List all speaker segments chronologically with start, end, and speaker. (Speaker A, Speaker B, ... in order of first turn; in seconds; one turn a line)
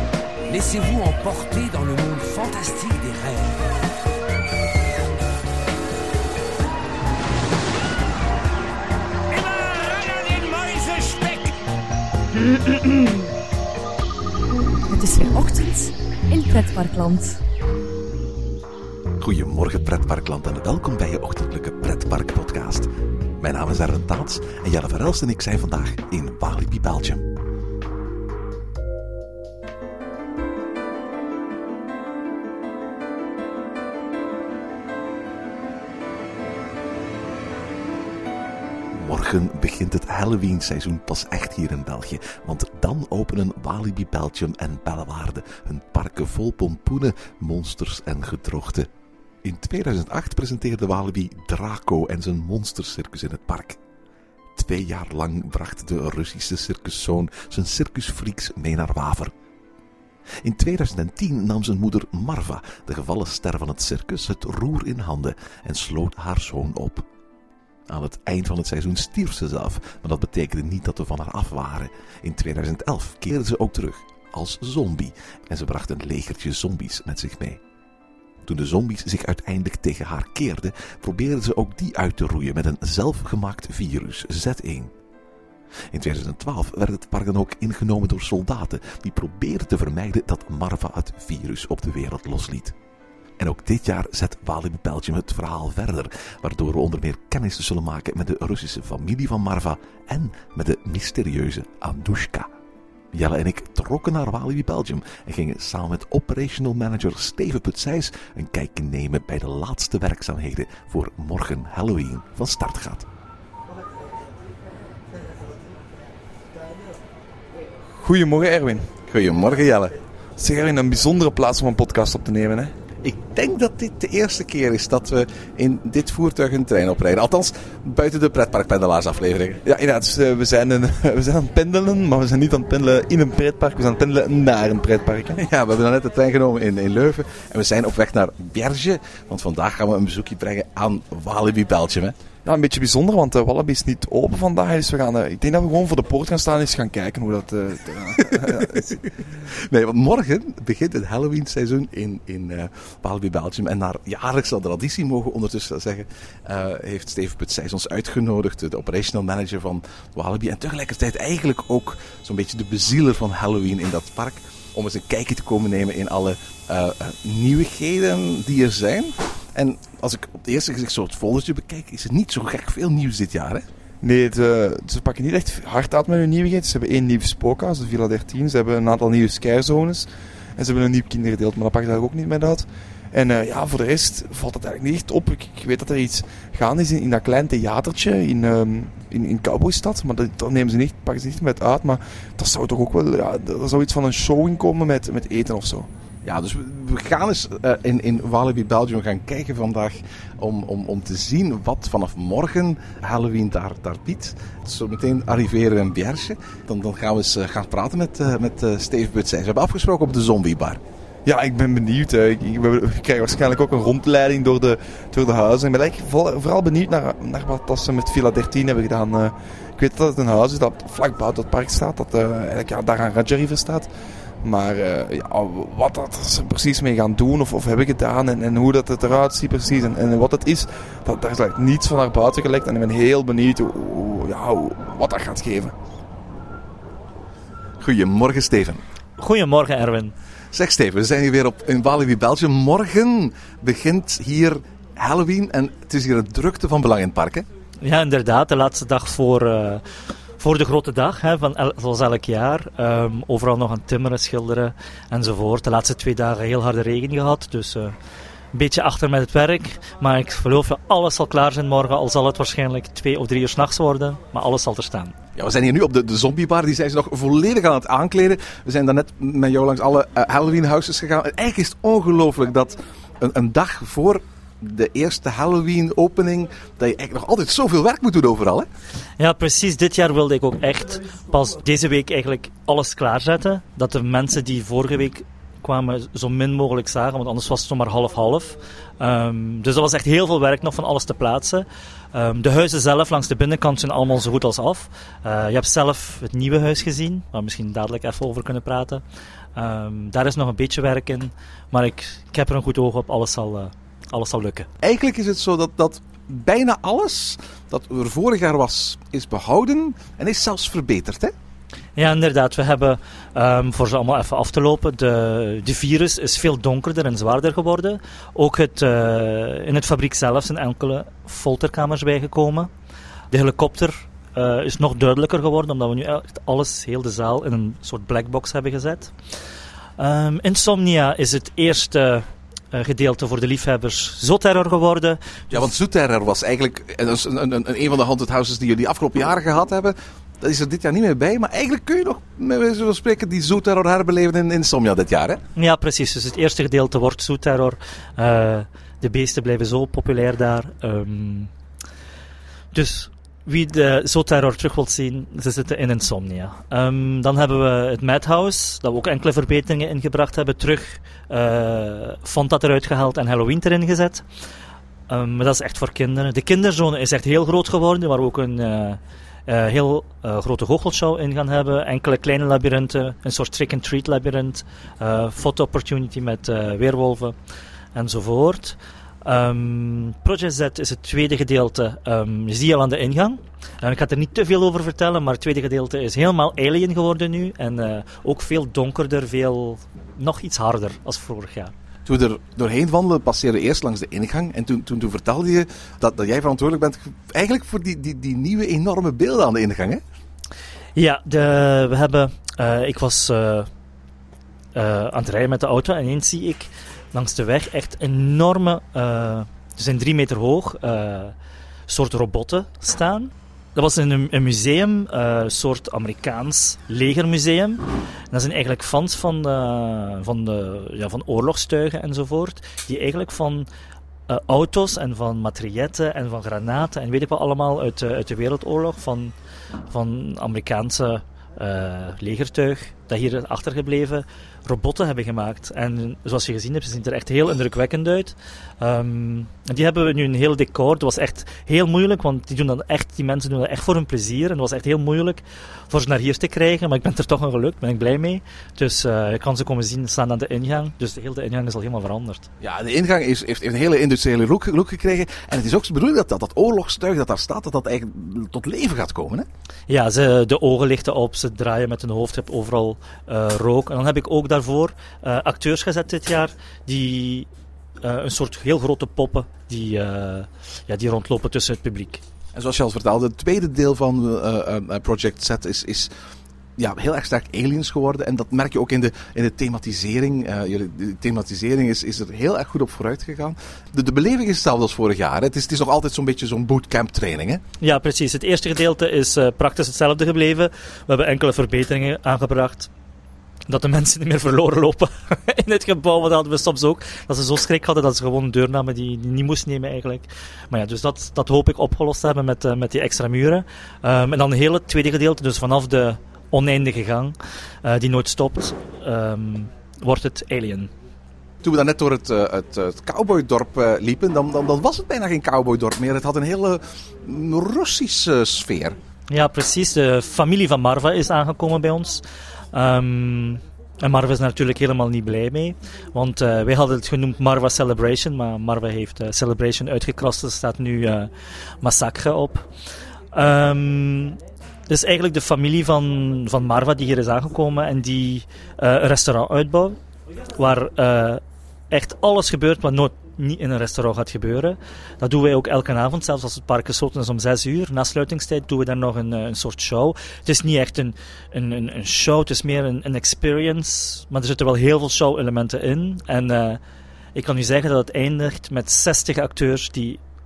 Speaker A: 0.5-3.6
Speaker A: 9.3-11.5
Speaker B: 14.9-17.4
Speaker C: 19.2-27.2
Speaker C: 38.9-48.9
Speaker C: 49.4-53.8
Speaker C: 54.5-59.3
Speaker C: 60.4-67.0
Speaker C: 67.9-77.6
Speaker C: 78.4-84.9
Speaker C: 85.9-92.7
Speaker C: 93.4-102.5
Speaker C: 103.1-113.1
Speaker D: 117.9-118.9
Speaker C: 119.1-119.9
Speaker D: 120.4-122.7
Speaker C: 123.0-129.6
Speaker D: 129.6-135.4
Speaker C: 135.4-142.1
Speaker D: 142.4-149.0
Speaker C: 148.3-148.9
Speaker C: 149.4-173.6
Speaker D: 174.0-195.9
Speaker C: 196.2-210.8
Speaker D: 211.2-223.9
Speaker D: 224.4-235.7
Speaker C: 237.8-238.8
Speaker E: 239.2-240.1
Speaker C: 240.5-247.4
Speaker E: 247.8-249.8
Speaker E: 250.4-257.9
Speaker E: 258.5-265.1
Speaker C: 265.4-278.7
Speaker E: 279.2-299.0
Speaker E: 299.6-304.7
Speaker C: 304.8-311.3
Speaker E: 312.0-322.7
Speaker E: 323.3-329.1
Speaker E: 330.0-335.5
Speaker C: 335.5-345.4
Speaker E: 345.6-351.5
Speaker E: 352.7-364.2
Speaker E: 365.1-377.3
Speaker E: 377.9-391.7
Speaker C: 392.1-400.0
Speaker E: 400.9-403.7
Speaker E: 404.7-411.3
Speaker E: 411.9-423.7
Speaker E: 424.3-429.3
Speaker E: 429.9-452.5
Speaker C: 452.6-459.5
Speaker E: 459.9-467.5
Speaker E: 468.0-472.2
Speaker C: 472.5-476.1
Speaker C: 476.8-487.6
Speaker E: 487.8-492.9
Speaker E: 493.7-510.9
Speaker C: 511.6-519.0
Speaker E: 519.3-531.3
Speaker E: 531.8-532.7
Speaker E: 533.3-540.0
Speaker E: 540.5-556.8
Speaker E: 557.3-560.2